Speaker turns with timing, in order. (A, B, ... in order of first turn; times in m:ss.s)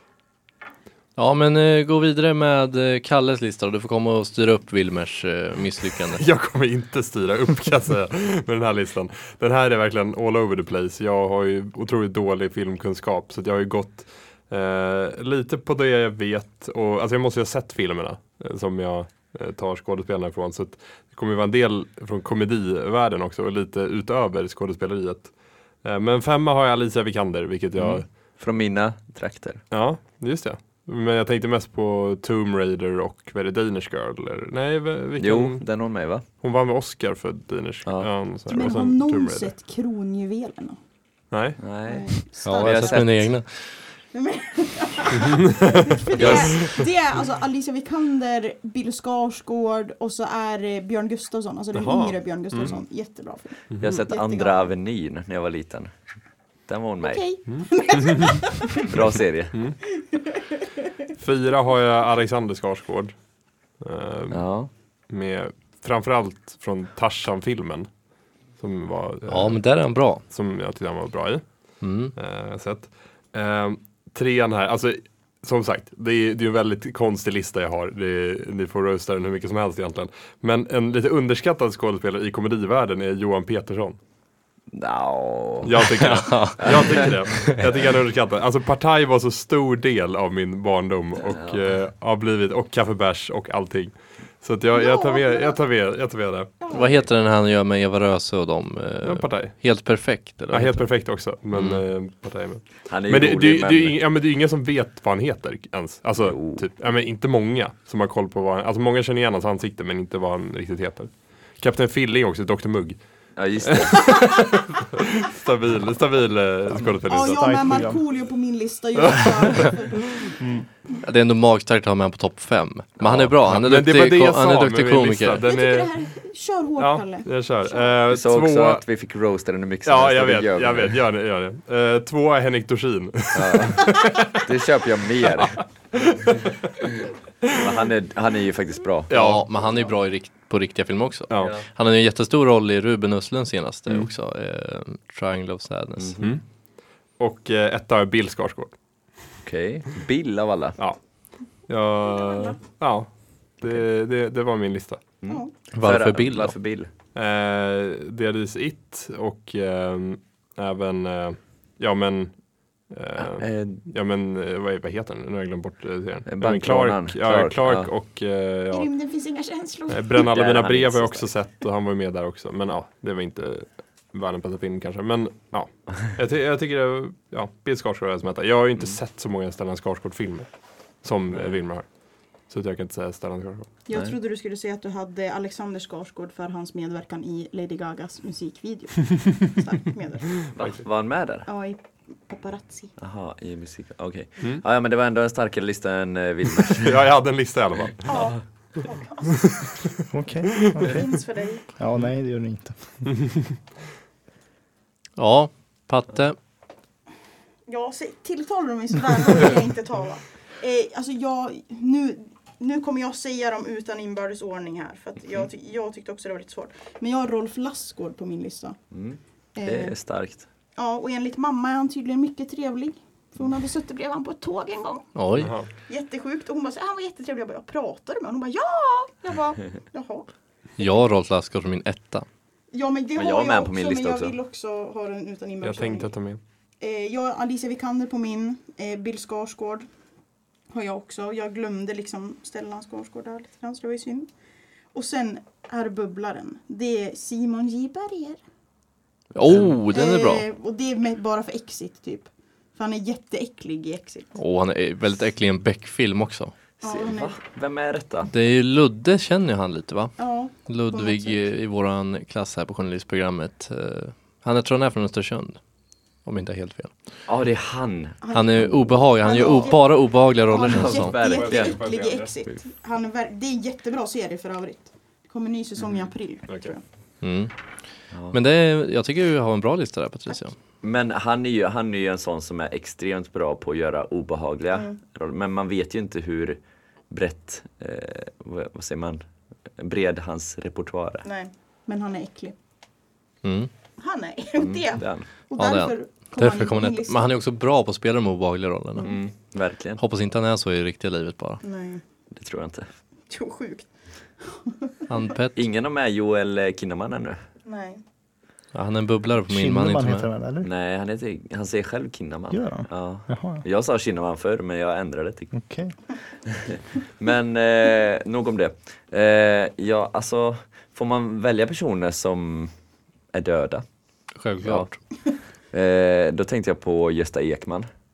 0:01.2-0:06.2 A
0:06.1-0:28.1 B
0:27.8-0:29.6 C
0:29.7-0:35.7 B
0:35.2-0:36.2 C
0:36.4-0:39.5 B
0:38.5-0:40.8 D
0:41.3-0:41.6 B
0:41.6-0:43.3 C
0:41.8-0:43.3 D
0:42.4-0:43.6 A
0:44.1-0:54.7 D
0:45.2-0:46.8 B
0:46.2-0:46.7 C
0:51.7-0:52.8 B
0:53.8-0:55.9 C
0:56.7-0:57.2 C
0:57.0-0:58.9 D
0:57.5-0:58.3 B
0:58.8-0:59.6 C
1:00.0-1:00.6 D
1:01.2-1:03.2 B
1:03.8-1:04.4 B
1:04.3-1:04.7 C
1:05.1-1:07.9 B
1:08.6-1:09.6 B
1:09.3-1:10.2 A
1:10.3-1:11.5 B
1:11.8-1:12.1 A
1:12.1-1:24.0 B
1:24.7-1:25.9 C
1:25.6-1:36.5 B
1:26.1-1:27.0 A
1:26.6-1:27.6 C
1:31.2-1:31.6 C
1:34.7-1:35.6 D
1:36.6-1:37.1 D
1:36.7-1:40.9 A
1:39.0-1:39.6 B
1:40.5-1:53.0 B
1:41.5-1:41.8 A
1:42.9-1:44.0 C
1:46.2-1:46.6 C
1:53.4-1:54.1 C
1:53.6-1:57.7 B
1:57.1-2:00.3 D
1:57.2-1:58.0 E
1:59.2-1:59.7 B
2:01.0-2:05.4 A
2:03.0-2:03.3 C
2:03.5-2:06.0 B
2:05.4-2:07.9 D
2:06.8-2:08.8 B
2:08.1-2:11.0 C
2:09.8-2:14.4 B
2:13.3-2:15.6 C
2:16.2-2:16.5 B
2:17.5-2:19.1 C
2:19.1-2:19.4 B
2:19.1-2:26.1 A
2:21.3-2:21.6 B
2:21.4-2:21.6 C
2:26.0-2:26.4 C
2:27.2-2:28.7 B
2:29.4-2:30.8 C
2:31.7-2:35.0 B
2:32.0-2:32.6 D
2:35.2-2:36.9 C
2:35.3-2:35.6 D
2:35.7-2:36.6 A
2:37.2-2:42.4 B
2:42.9-2:48.9 B
2:43.2-2:43.8 C
2:46.3-2:47.9 C
2:48.7-2:50.2 D
2:49.9-3:00.5 B
2:50.2-2:51.3 C
3:01.0-3:01.9 B
3:02.5-3:03.7 B
3:03.9-3:10.5 D
3:10.5-3:10.8 B
3:10.5-3:11.5 C
3:11.5-3:12.9 D
3:13.0-3:17.0 C
3:16.7-3:18.0 B
3:18.0-3:19.6 D
3:20.1-3:21.1 E
3:20.8-3:21.7 D
3:21.8-3:23.0 E
3:25.2-3:26.4 A
3:27.7-3:38.8 D
3:38.9-3:40.5 C
3:39.6-3:40.0 D
3:40.8-3:45.1 D
3:45.2-3:45.5 A
3:45.4-3:45.7 B
3:45.9-3:50.3 D
3:50.8-3:52.3 A
3:52.7-3:56.1 D
3:53.2-3:54.4 C
3:55.6-3:56.4 B
3:56.8-3:59.9 D
4:00.7-4:04.3 D
4:04.9-4:08.4 D
4:09.4-4:10.4 A
4:09.4-4:09.8 C
4:09.9-4:14.4 D
4:14.4-4:16.5 A
4:16.8-4:17.4 D
4:16.8-4:18.3 C
4:18.3-4:25.6 A
4:20.2-4:21.4 D
4:26.2-4:26.9 A
4:27.3-4:28.2 C
4:28.2-4:36.8 D
4:28.3-4:31.1 A
4:30.5-4:31.8 C
4:31.2-4:32.4 B
4:36.5-4:36.7 B
4:37.2-4:37.5 A
4:38.1-4:38.4 C
4:38.3-4:40.6 A
4:40.8-4:49.2 C
4:44.7-4:45.0 D
4:49.8-4:51.2 C
4:51.2-4:52.6 D
4:53.4-4:53.7 A
4:54.0-4:57.3 D
4:54.6-4:55.2 C
4:55.6-4:59.1 A
4:59.0-5:00.0 C
5:00.0-5:01.6 A
5:01.6-5:02.0 D
5:02.3-5:02.9 C
5:03.3-5:03.9 D
5:04.4-5:04.9 D
5:05.1-5:05.6 A
5:05.6-5:07.4 C
5:07.6-5:08.0 D
5:08.7-5:10.3 A
5:09.5-5:10.7 E
5:10.6-5:15.5 C
5:12.5-5:13.6 E
5:15.5-5:16.0 E
5:16.4-5:22.7 C
5:23.3-5:23.8 C
5:24.4-5:25.0 A
5:24.6-5:25.0 C
5:25.7-5:27.9 C